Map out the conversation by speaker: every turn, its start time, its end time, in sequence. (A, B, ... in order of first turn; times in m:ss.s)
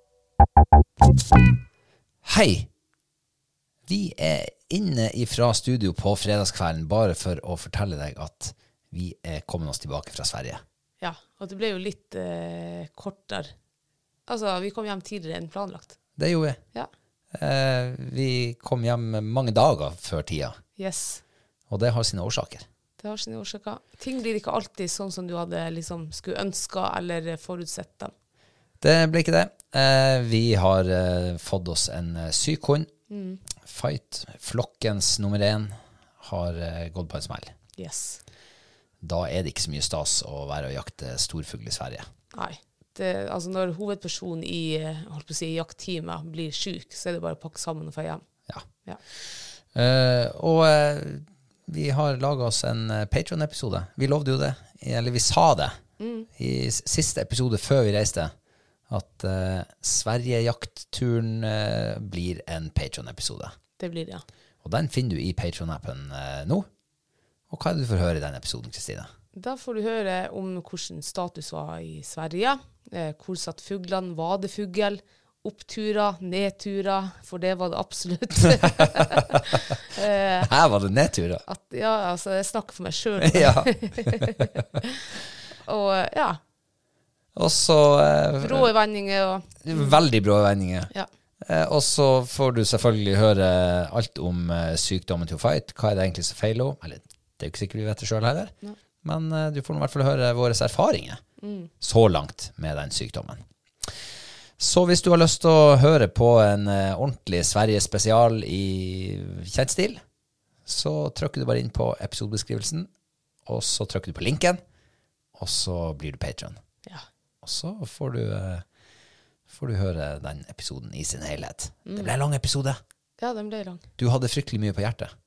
0:02.2-0:02.7 A
0:03.9-0:10.6 A
0:11.0-0:13.5 B
0:14.3-0:16.0 B
0:16.2-0:16.6 A
0:17.3-0:20.6 A
0:20.8-0:21.2 B
0:21.7-0:22.6 A
0:23.0-0:28.1 B
0:28.8-0:32.9 A
0:33.1-0:33.4 B
0:33.6-0:37.5 A
0:37.8-0:38.2 B
0:39.0-0:42.0 A
0:42.3-0:48.2 B
0:49.7-0:55.7 A
0:56.0-0:56.3 B
0:56.4-0:58.3 A
0:58.9-1:03.5 A
1:03.8-1:04.2 B
1:04.6-1:06.6 A
1:07.5-1:09.1 A
1:09.3-1:20.4 B
1:20.3-1:21.4 A
1:21.4-1:25.1 B
1:23.2-1:24.4 A
1:25.6-1:26.4 B
1:27.3-1:28.8 A
1:28.4-1:30.0 B
1:29.6-1:30.9 A
1:31.4-1:41.2 A
1:41.4-1:41.7 B
1:41.8-1:43.4 A
1:44.6-1:50.0 A
1:50.6-1:52.9 A
1:53.4-1:54.6 A
1:55.3-1:56.6 A
1:57.4-1:58.6 A
1:59.5-2:02.8 A
2:03.2-2:03.8 B
2:04.0-2:05.1 A